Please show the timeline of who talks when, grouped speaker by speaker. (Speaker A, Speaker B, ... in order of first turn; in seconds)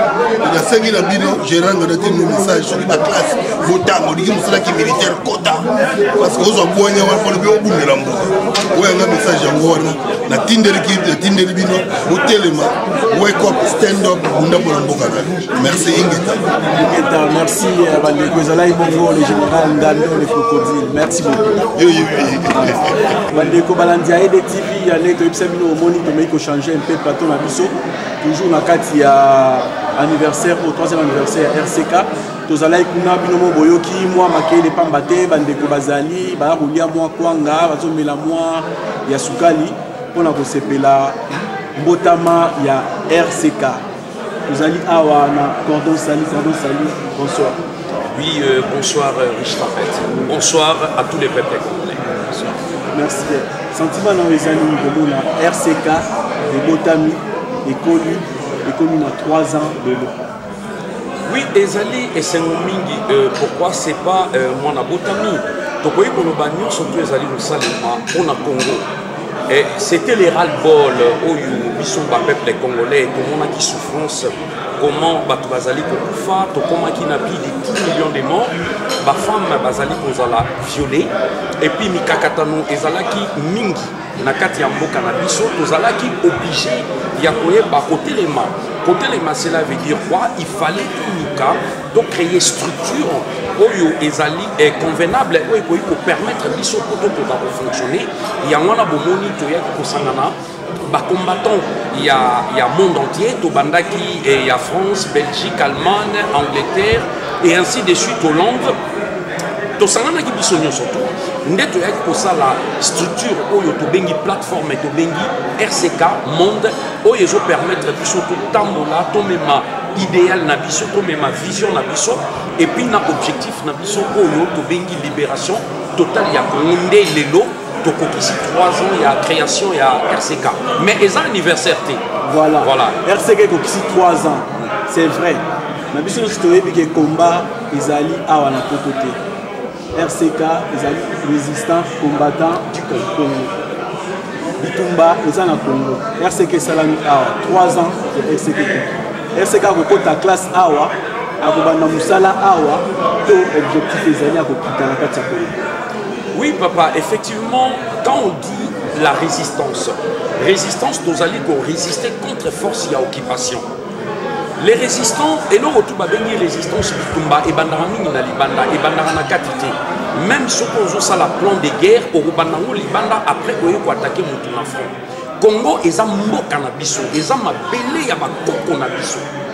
Speaker A: 0.4-16.4, 21.8-22.9
Speaker B: 16.7-21.6, 23.3-41.2, 41.8-43.8, 44.5-47.6, 52.1-60.1, 132.2-139.2, 139.9-143.5, 144.6-155.6
Speaker C: 48.1-52.1, 61.3-68.8, 69.5-100.3, 100.9-108.7, 109.8-132.0, 132.6-133.0, 156.3-163.7, 164.6-179.3